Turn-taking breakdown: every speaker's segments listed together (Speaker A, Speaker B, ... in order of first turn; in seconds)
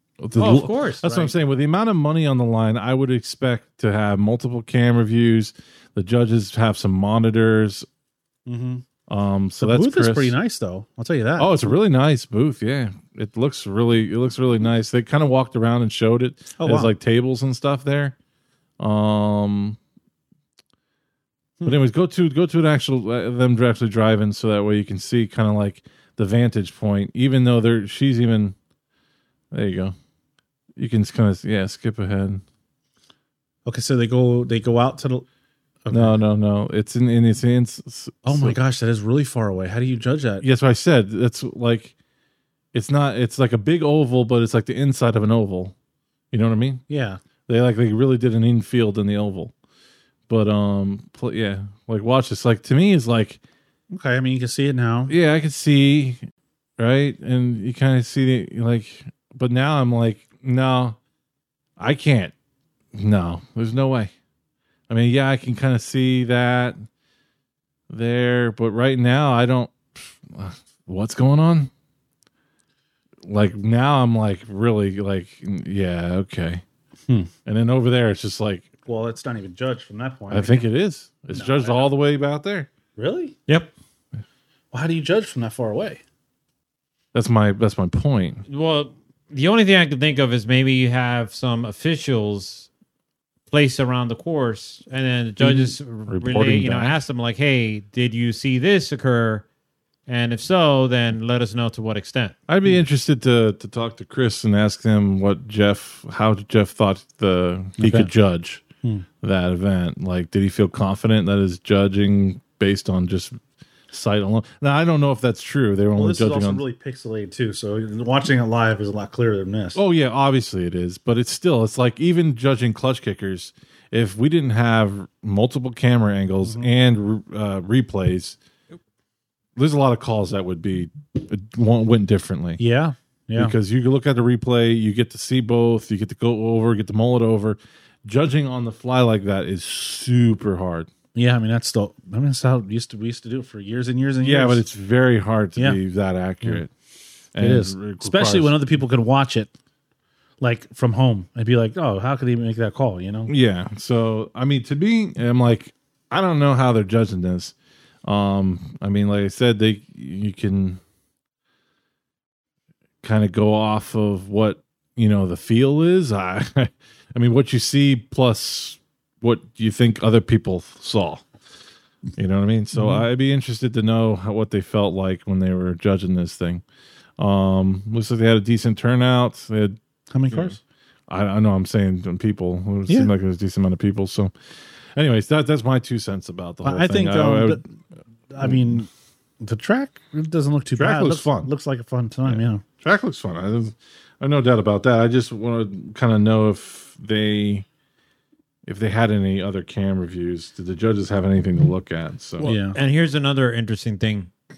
Speaker A: 0.2-7.9, 9.1-10.4, 11.4-18.2, 18.8-19.8, 21.6-28.6, 29.5-29.9, 30.8-32.4, 35.9-38.6, 40.4-42.0, 42.7-45.7, 46.3-46.8, 47.5-49.5, 50.3-53.4, 55.1-56.2, 56.8-61.0, 61.8-62.3, 62.9-64.1, 64.9-66.8, 67.9-71.7, 73.2-76.6, 77.5-78.7, 80.3-82.7, 87.1-88.5, 95.4-97.0, 102.5-108.6, 109.2-116.6, 119.8-128.4, 129.6-132.6, 133.4-140.9, 144.2-146.7, 147.3-148.6, 153.3-160.8, 163.0-171.2, 172.2-176.6, 177.2-179.8, 180.3-184.3, 184.9-187.6, 190.8-191.5, 192.3-197.7, 198.7-202.5
Speaker B: 0.4-1.1, 83.5-83.7, 88.5-92.7, 93.5-99.5, 100.1-102.3, 202.4-204.3
Speaker C: 1.0-1.3, 8.5-8.8, 9.6-11.6, 16.6-16.9, 33.7-35.3, 35.9-36.2, 38.2-40.4, 46.9-47.2, 53.9-55.1, 78.9-80.7, 81.3-81.9, 83.0-83.4, 84.7-86.0, 107.8-108.1, 116.0-119.8, 126.4-126.7, 132.6-133.6, 141.2-144.7, 147.4-149.5, 150.4-153.3, 172.7-173.1, 180.1-180.6, 186.6-187.6, 188.3-188.9, 189.4-192.6, 202.4-202.8